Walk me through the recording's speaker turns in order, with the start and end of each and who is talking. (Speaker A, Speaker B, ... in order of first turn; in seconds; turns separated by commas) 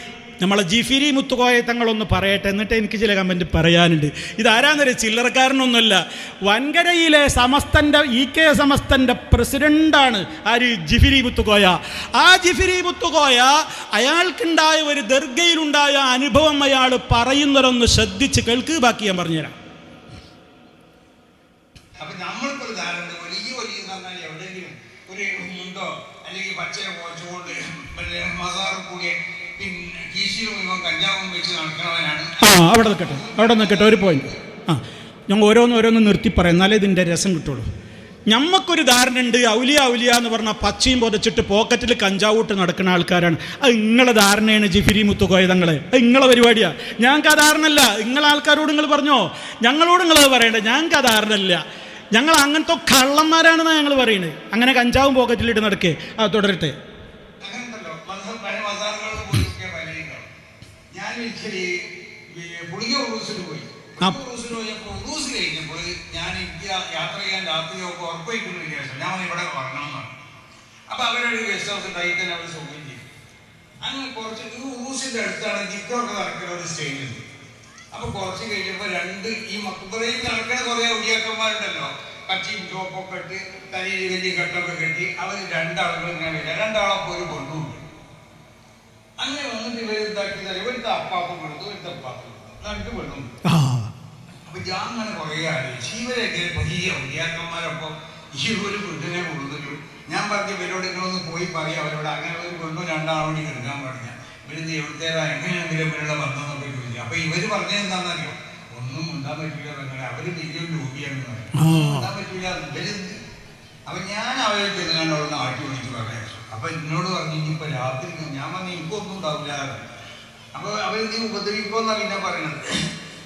Speaker A: 0.4-19.6, Speaker B: 22.0-34.4, Speaker A: 32.4-37.6, Speaker A: 38.3-51.6, Speaker A: 52.1-56.7, Speaker B: 57.4-60.3, Speaker B: 60.9-70.1, Speaker B: 70.9-73.0, Speaker B: 73.8-77.2, Speaker B: 77.9-87.8, Speaker B: 89.2-93.3, Speaker A: 93.4-93.9, Speaker B: 94.5-113.2, Speaker A: 111.5-112.1, Speaker B: 113.8-119.9, Speaker B: 120.5-122.9